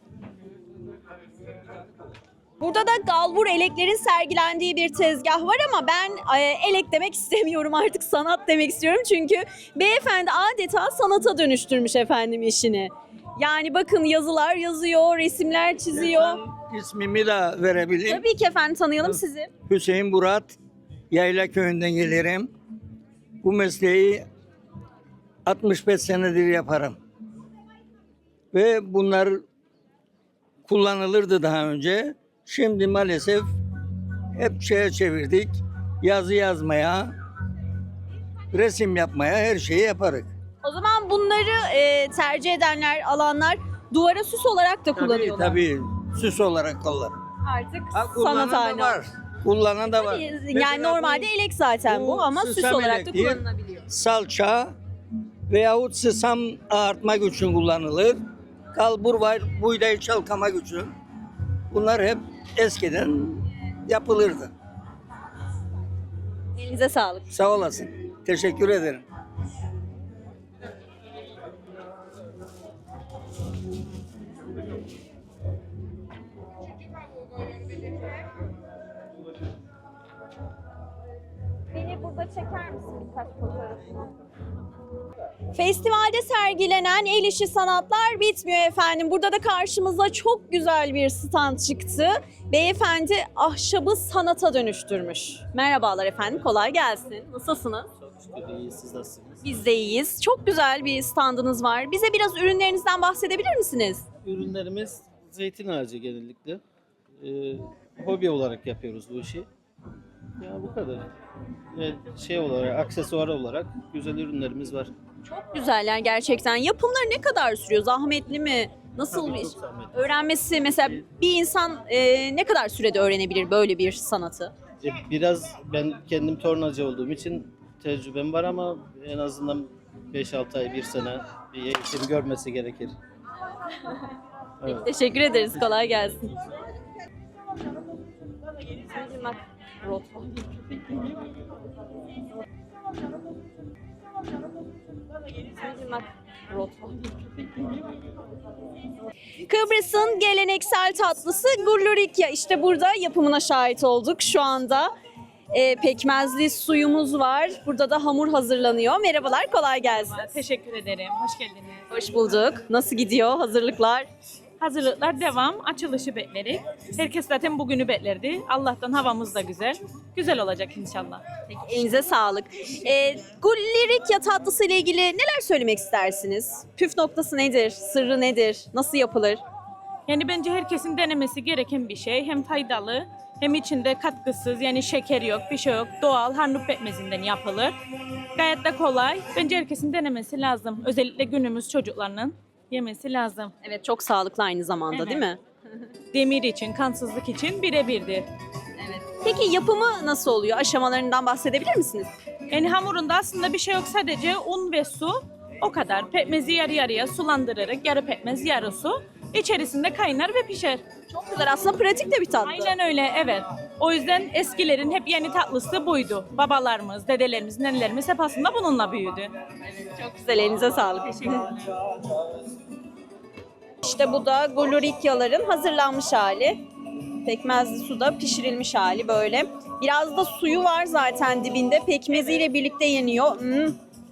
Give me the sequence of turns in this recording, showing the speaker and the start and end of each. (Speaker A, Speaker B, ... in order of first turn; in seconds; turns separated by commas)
Speaker A: 2.6-16.4, Speaker B: 15.9-18.2, Speaker A: 18.1-19.5, Speaker B: 19.7-20.6, Speaker B: 21.1-22.5, Speaker B: 23.4-24.3, Speaker B: 25.4-27.0, Speaker B: 28.5-29.4, Speaker B: 30.6-33.5, Speaker B: 34.3-37.1, Speaker B: 38.5-40.3, Speaker A: 40.6-45.6, Speaker B: 45.0-47.2, Speaker A: 47.4-49.0, Speaker B: 47.9-51.3, Speaker A: 49.8-53.8, Speaker B: 51.8-54.8, Speaker B: 55.5-58.2, Speaker B: 58.7-60.9, Speaker B: 61.7-64.5, Speaker A: 66.5-67.2, Speaker B: 67.3-69.0, Speaker A: 81.7-83.9, Speaker A: 85.5-97.9, Speaker C: 98.0-99.5, Speaker A: 99.4-104.0, Speaker C: 104.2-106.6, Speaker C: 107.2-109.5, Speaker C: 110.4-111.1, Speaker C: 111.8-114.9, Speaker A: 115.2-124.5, Speaker C: 119.0-121.0, Speaker C: 124.8-132.9, Speaker C: 134.6-134.9, Speaker A: 134.7-136.3, Speaker A: 138.9-140.6, Speaker A: 145.5-147.1, Speaker A: 149.4-154.9, Speaker A: 155.5-160.3, Speaker D: 159.8-161.8, Speaker A: 161.9-164.1, Speaker D: 164.6-171.2, Speaker A: 171.5-179.4, Speaker D: 180.1-187.8, Speaker D: 188.3-193.5, Speaker A: 193.6-195.4, Speaker D: 194.9-195.3, Speaker D: 196.1-198.3, Speaker A: 198.8-202.1, Speaker D: 202.5-210.8, Speaker A: 211.1-212.7, Speaker D: 212.4-219.3, Speaker A: 219.9-221.6, Speaker A: 223.8-226.6, Speaker A: 227.2-233.8, Speaker D: 232.1-232.5